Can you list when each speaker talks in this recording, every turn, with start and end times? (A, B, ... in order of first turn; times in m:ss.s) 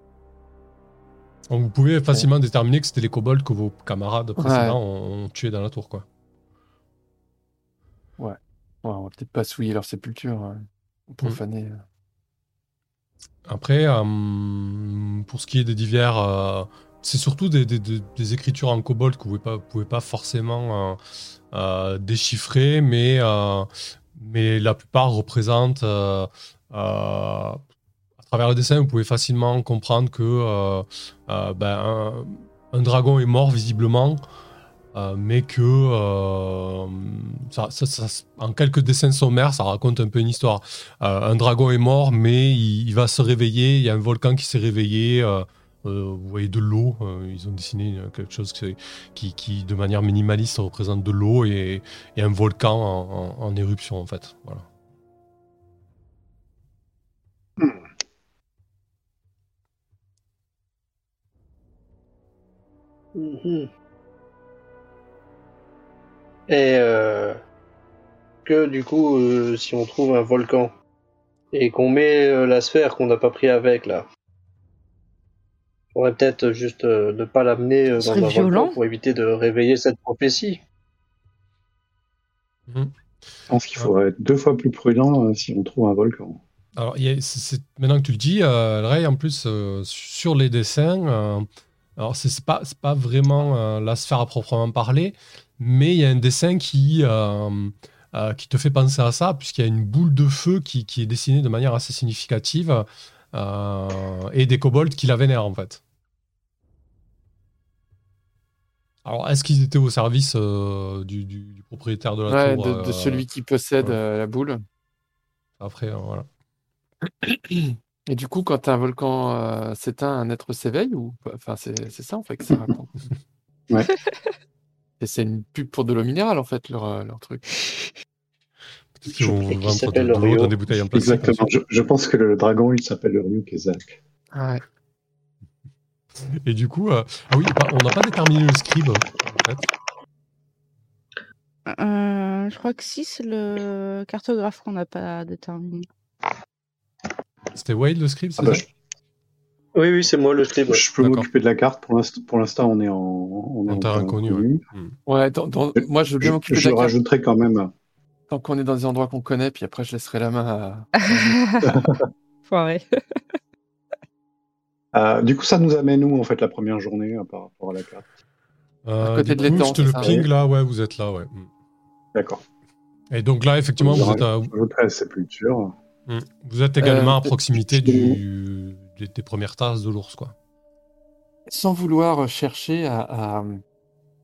0:01.5-0:06.0 A
0:04.4-0:04.8 B
0:08.2-0:11.8 B
0:13.5-0:21.0 A
0:21.5-0:27.6 A
0:28.2-0:34.2 A
0:34.9-0:54.6 A
1:03.1-1:03.7 C
1:06.5-1:07.4 C
1:08.4-1:10.7 C
1:11.5-1:14.0 C
1:15.9-1:20.6 C
1:18.0-1:18.8 D
1:23.5-1:26.4 E
1:26.8-1:45.8 A
1:49.0-1:53.2 A
1:52.3-1:54.6 B
1:55.6-1:56.3 A
1:57.2-2:03.1 B
2:05.0-2:07.9 B
2:09.0-2:11.5 A
2:09.2-2:10.6 C
2:10.9-2:14.0 E
2:14.3-2:14.6 B
2:16.2-2:19.7 A
2:21.7-2:25.8 D
2:27.5-2:28.6 A
2:28.4-2:28.7 E
2:29.8-2:30.8 C
2:30.5-2:34.6 E
2:31.0-2:31.3 A
2:33.7-2:35.0 A
2:35.0-2:36.9 B
2:36.2-2:37.7 E
2:38.3-2:41.4 B
2:41.0-2:41.8 D
2:41.7-2:42.0 E
2:42.5-2:43.2 D
2:44.9-2:48.1 E
2:48.8-2:51.5 A
2:49.0-2:50.2 B
2:49.5-2:50.3 E
2:52.1-2:52.4 E
2:53.1-2:54.5 A
2:53.8-2:55.7 E
2:56.1-3:00.4 A
2:56.8-2:57.3 B
2:57.6-2:58.2 E
3:01.5-3:03.6 B